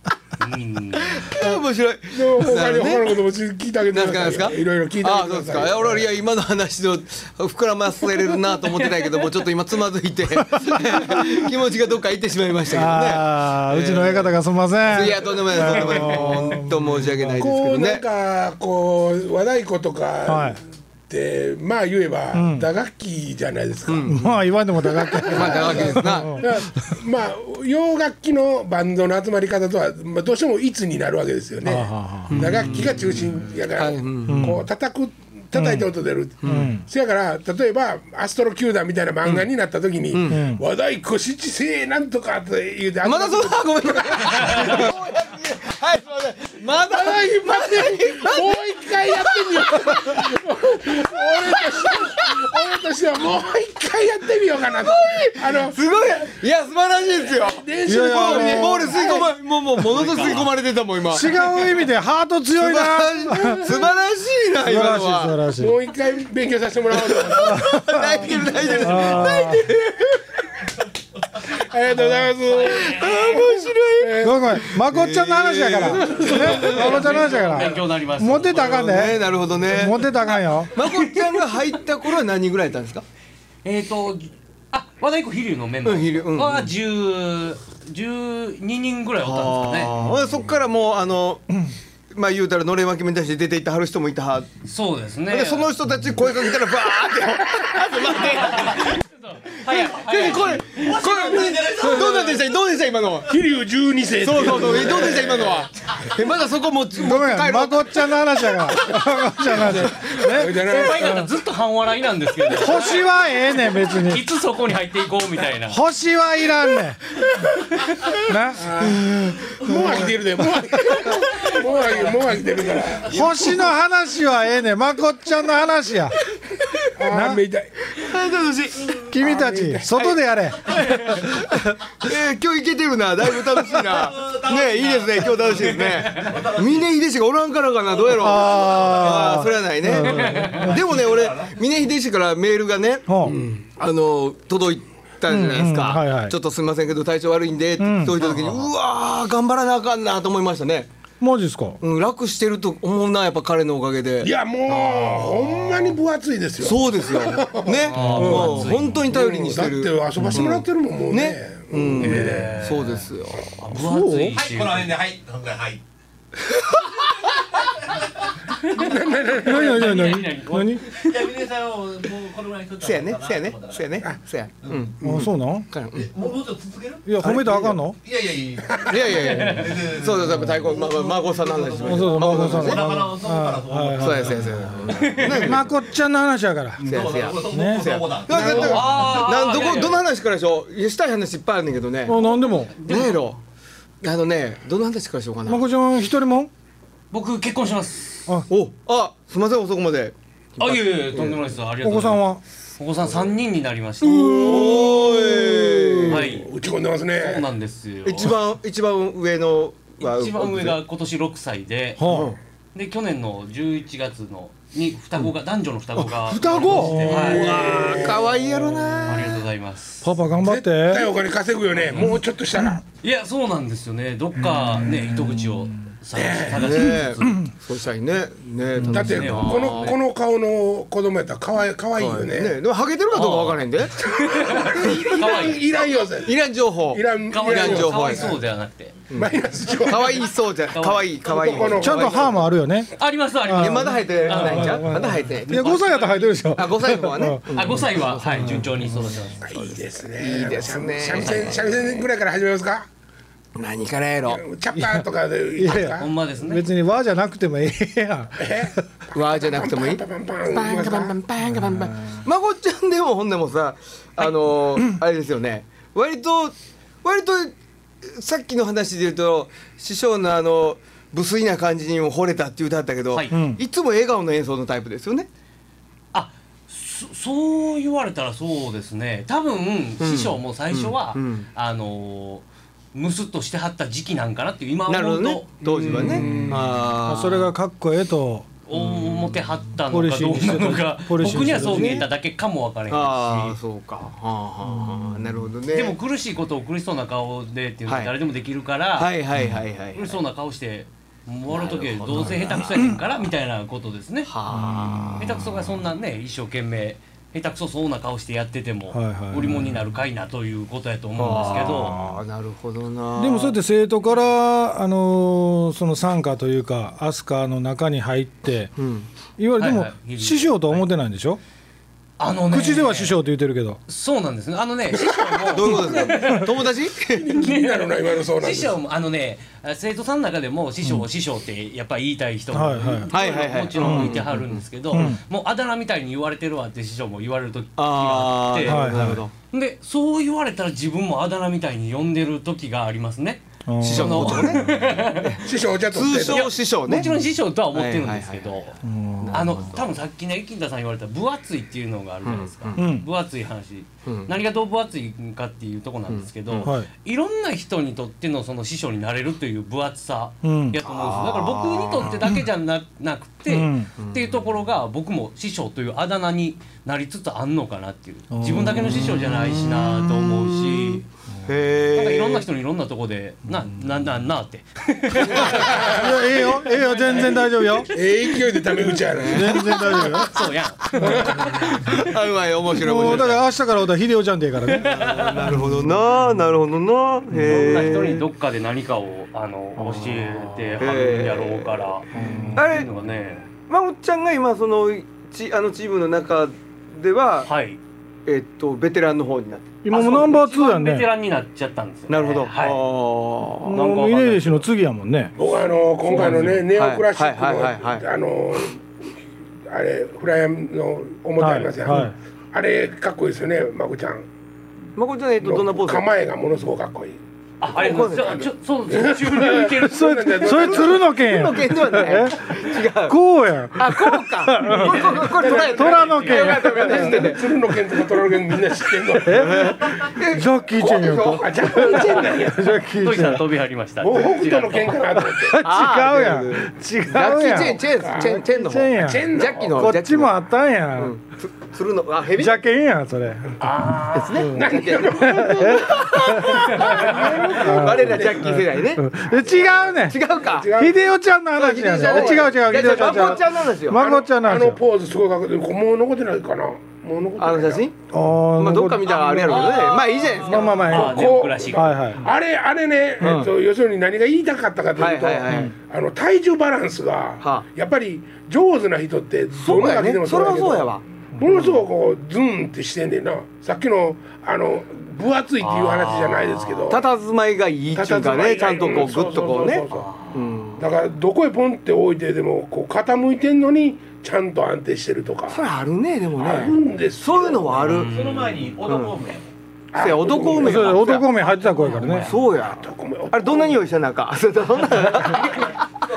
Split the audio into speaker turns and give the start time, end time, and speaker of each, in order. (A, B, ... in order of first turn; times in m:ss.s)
0:00.4-0:01.4 A
0:01.0-0:03.2 B
0:02.1-0:06.1 C
0:03.9-0:14.3 B
0:10.4-0:11.3 D
0:12.7-0:17.4 D
0:14.8-0:18.0 B
0:17.4-0:24.2 C
0:20.2-0:20.6 D
0:22.3-0:22.7 D
0:23.9-0:24.4 B
0:24.1-0:26.6 D
0:24.8-0:45.1 C
0:25.2-0:26.4 B
0:31.6-0:32.8 D
0:32.3-0:33.2 B
0:33.8-0:34.6 B
0:34.3-0:34.6 D
0:35.6-0:35.9 D
0:36.4-0:36.8 B
0:36.4-0:36.8 D
0:40.1-0:40.4 B
0:40.3-0:40.6 D
0:43.0-0:52.7 B
0:46.8-0:55.8 C
0:54.7-1:01.6 B
0:57.4-0:59.3 C
0:57.8-0:59.2 D
0:59.8-1:00.5 A
1:01.1-1:03.8 D
1:02.6-1:05.5 B
1:04.6-1:05.8 D
1:05.6-1:07.8 C
1:06.9-1:10.3 B
1:07.4-1:09.7 D
1:08.4-1:09.3 C
1:11.5-1:14.6 C
1:12.5-1:13.4 A
1:12.6-1:17.1 B
1:14.2-1:20.7 D
1:16.1-1:16.7 C
1:16.1-1:19.1 A
1:17.1-1:17.6 E
1:18.6-1:20.1 B
1:20.7-1:23.0 B
1:20.7-1:21.8 A
1:23.6-1:29.9 A
1:25.8-1:26.7 B
1:29.2-1:31.5 B
1:32.1-1:34.5 B
1:34.6-1:35.8 A
1:35.3-1:43.3 B
1:37.6-1:37.9 C
1:38.3-1:41.1 A
1:40.7-1:42.5 E
1:41.9-1:42.1 C
1:43.2-1:45.7 C
1:44.2-1:47.9 B
1:47.0-1:51.3 D
1:49.5-1:51.2 C
1:50.4-1:53.0 A
1:52.5-1:54.2 D
1:53.8-1:55.8 A
1:55.7-1:57.0 D
1:58.2-1:59.2 D
1:58.5-2:03.6 C
1:59.2-1:59.5 B
2:01.7-2:02.8 E
2:03.1-2:06.2 D
2:06.5-2:06.9 B
2:07.0-2:08.0 C
2:07.1-2:07.4 D
2:07.9-2:09.1 B
2:09.0-2:11.5 D
2:09.1-2:10.1 C
2:10.7-2:30.9 B
2:13.5-2:17.0 E
2:16.0-2:16.3 A
2:17.8-2:19.6 E
2:18.1-2:20.8 D
2:20.0-2:20.7 A
2:20.3-2:21.6 E
2:23.1-2:23.4 D
2:25.3-2:26.3 D
2:27.8-2:28.3 D
2:31.2-2:31.8 D
2:31.8-2:34.3 B
2:34.2-2:42.6 C
2:34.9-2:35.8 B
2:36.6-2:44.3 B
2:37.9-2:39.1 A
2:38.0-2:38.5 D
2:42.0-2:44.9 A
2:44.3-2:45.8 E
2:46.4-2:46.8 B
2:47.6-2:48.3 E
2:48.6-2:51.3 A
2:48.7-2:50.1 C
2:49.4-2:50.8 D
2:50.9-2:54.9 E
2:52.8-2:56.1 B
2:55.0-2:55.7 D
2:56.0-2:57.2 E
2:57.0-2:58.0 D
2:57.2-2:57.8 B
2:58.0-3:05.0 E
2:58.9-3:02.9 B
2:59.1-2:59.8 A
3:01.8-3:06.9 D
3:04.0-3:05.7 B
3:04.9-3:05.6 A
3:06.8-3:08.9 E
3:06.8-3:12.2 B
3:07.5-3:08.0 D
3:08.3-3:09.2 C
3:08.4-3:10.0 A
3:12.0-3:12.8 D
3:12.2-3:13.2 A
3:12.8-3:13.4 B
3:14.0-3:15.6 B
3:15.5-3:16.5 D
3:17.1-3:18.3 A
3:18.5-3:21.4 B
3:20.6-3:25.0 A
3:21.8-3:22.4 D
3:24.0-3:26.3 B
3:24.5-3:27.5 C
3:26.1-3:28.3 A
3:28.0-3:30.8 B
3:30.0-3:32.1 A
3:32.0-3:32.3 D
3:32.0-3:32.4 B
3:32.7-3:38.2 A
3:36.0-3:39.5 B
3:36.4-3:37.6 D
3:36.8-3:38.3 C
3:39.0-3:40.1 A
3:40.0-3:41.1 D
3:40.4-3:42.8 C
3:41.9-3:42.1 A
3:43.0-3:47.4 A
3:44.4-3:45.7 D
3:46.1-3:46.8 C
3:46.5-3:50.0 B
3:48.8-3:49.3 D
3:48.9-3:52.6 C
3:49.0-3:50.0 A
3:52.0-3:54.0 B
3:53.1-3:55.7 A
3:54.0-3:58.4 C
3:54.8-3:55.6 B
3:56.2-3:58.3 B
3:57.3-3:59.0 A
3:59.1-4:02.3 B
3:59.1-4:00.3 C
4:00.7-4:01.2 A
4:01.2-4:02.4 C
4:01.8-4:02.9 D
4:03.0-4:06.4 A
4:03.4-4:07.8 D
4:03.5-4:08.7 B
4:07.5-4:09.5 A
4:08.4-4:08.9 D
4:09.4-4:12.9 C
4:09.5-4:12.0 B
4:13.5-4:14.4 B
4:14.3-4:16.1 C
4:14.7-4:18.8 D
4:15.8-4:16.7 A
4:18.4-4:21.2 C
4:19.1-4:35.3 B
4:21.5-4:22.2 D
4:33.3-4:33.6 D
4:36.1-4:46.2 A
4:40.0-4:41.5 B
4:44.9-4:47.5 B
4:45.6-4:46.8 C
4:46.0-4:48.5 D
4:48.7-4:53.6 A
4:48.8-4:49.6 B
4:49.9-4:52.0 D
4:51.2-4:52.1 B
4:52.9-4:56.0 B
4:55.7-4:59.1 A
4:57.9-4:58.2 B
4:59.0-5:00.2 B
4:59.4-4:59.6 D
4:59.9-5:04.3 A
5:01.5-5:02.7 B
5:04.2-5:05.5 B
5:04.5-5:05.2 D
5:05.2-5:12.0 A
5:08.9-5:09.9 D
5:11.2-5:13.6 B
5:11.4-5:12.2 D
5:13.2-5:18.7 D
5:18.8-5:19.1 B
5:19.4-5:21.4 D
5:19.6-5:20.9 A
5:22.2-5:23.2 A
5:22.5-5:23.8 D
5:23.9-5:26.7 A
5:25.0-5:25.3 C
5:25.5-5:27.4 B
5:27.1-5:28.8 C
5:27.4-5:39.0 A
5:32.5-5:33.1 D
5:33.1-5:35.1 B
5:33.8-5:34.2 D
5:34.9-5:35.2 D
5:37.8-5:39.3 B
5:38.7-5:39.2 D
5:39.5-5:45.5 A
5:43.7-5:44.6 D
5:43.8-5:47.1 B
5:45.4-5:46.5 C
5:46.1-5:48.8 A
5:47.7-5:48.5 B
5:48.8-5:49.7 D
5:49.2-5:49.9 B
5:49.3-6:11.0 A
5:52.2-5:52.9 B
5:52.8-5:53.0 D
5:54.0-5:54.3 B
5:56.1-5:56.7 B
5:56.6-5:56.9 D
6:00.4-6:00.8 D
6:00.8-6:02.2 B
6:03.5-6:03.9 D
6:04.0-6:04.4 B
6:08.3-6:09.6 D
6:09.6-6:12.5 B
6:11.9-6:18.0 A
6:15.2-6:15.7 B
6:15.4-6:17.9 D
6:15.5-6:16.2 C
6:17.9-6:20.0 C
6:19.1-6:20.2 B
6:19.2-6:20.5 D
6:19.6-6:21.7 A
6:21.0-6:21.7 C
6:21.0-6:23.4 B
6:22.8-6:24.9 D
6:24.7-6:25.5 A
6:24.8-6:28.2 B
6:25.5-6:26.0 D
6:27.3-6:27.9 D
6:27.4-6:33.5 A
6:29.8-6:32.9 B
6:32.1-6:32.7 D
6:33.5-6:37.5 B
6:37.4-6:37.8 A
6:38.2-6:39.8 B
6:39.8-6:41.1 D
6:39.9-6:42.8 A
6:42.1-6:43.8 B
6:43.6-6:45.3 D
6:43.7-6:44.7 A
6:45.3-6:48.8 C
6:46.1-6:48.0 B
6:46.2-6:46.5 D
6:49.7-6:54.2 C
6:51.4-6:52.2 D
6:55.0-6:56.1 B
6:55.4-6:57.2 C
6:57.6-7:00.8 A
6:57.7-6:58.5 B
6:58.9-7:01.2 C
6:59.8-7:07.4 D
7:00.5-7:03.2 B
7:03.8-7:07.5 B
7:04.6-7:06.8 A
7:05.8-7:10.0 C
7:09.2-7:13.5 D
7:09.3-7:12.4 B
7:11.1-7:12.8 C
7:12.9-7:15.3 A
7:14.0-7:15.6 C
7:15.2-7:21.1 D
7:15.6-7:20.3 B
7:18.0-7:19.9 C
7:21.0-7:22.6 B
7:22.3-7:23.6 D
7:23.6-7:24.5 A
7:24.2-7:29.2 B
7:24.3-7:30.2 D
7:24.5-7:28.6 C
7:29.2-7:30.0 C
7:30.0-7:30.7 B
7:30.5-7:31.0 C
7:30.7-7:34.8 D
7:31.6-7:34.2 B
7:31.7-7:37.9 C
7:37.4-7:38.0 B
7:38.1-7:39.6 D
7:38.5-7:40.8 B
7:39.2-7:40.9 E
7:40.4-7:42.2 D
7:40.5-7:57.0 C
7:40.9-7:42.0 A
7:43.2-7:43.5 B
7:45.0-7:45.7 B
7:45.5-7:45.7 D
7:47.4-7:47.7 B
7:49.6-7:51.0 B
7:55.6-7:57.0 A
7:56.9-8:00.8 B
7:57.9-8:00.1 C
7:59.9-8:00.4 A
8:00.8-8:05.7 C
8:05.5-8:08.1 B
8:06.3-8:07.9 C
8:07.8-8:08.8 A
8:07.9-8:09.5 E
8:08.9-8:09.2 B
8:09.9-8:11.1 C
8:10.0-8:11.3 B
8:10.6-8:12.3 D
8:11.5-8:12.4 A
8:12.0-8:15.8 B
8:12.6-8:13.9 C
8:15.0-8:15.7 A